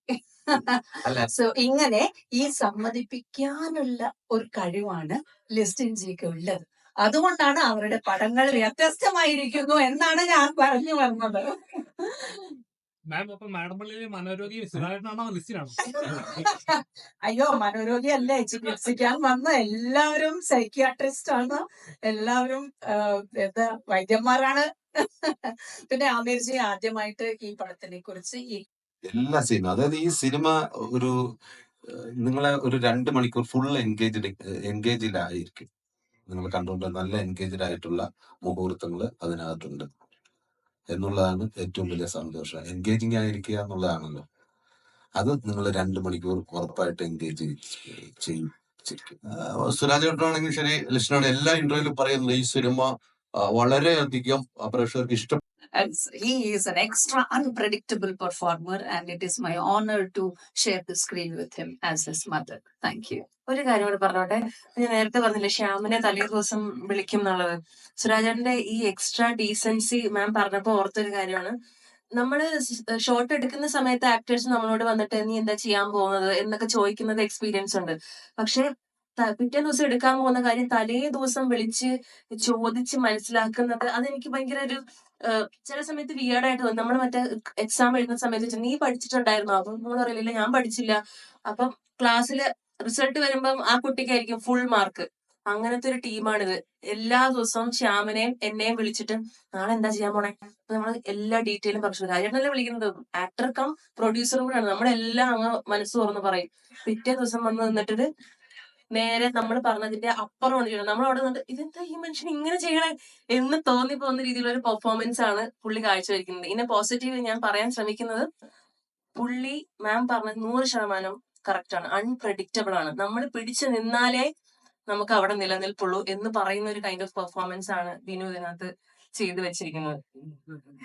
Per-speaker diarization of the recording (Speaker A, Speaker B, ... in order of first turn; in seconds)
Speaker A: 0.5-11.4, 15.9-22.7, 23.4-24.7, 25.9-28.6, 55.8-63.2
Speaker B: 13.1-15.8
Speaker C: 29.1-31.1, 31.9-35.7, 36.3-39.9, 40.9-44.2, 45.2-49.2
Speaker D: 49.3-55.4
Speaker E: 63.5-71.5, 72.2-78.6, 79.2-91.0, 91.5-108.0, 109.0-118.3, 119.2-124.2, 124.9-130.0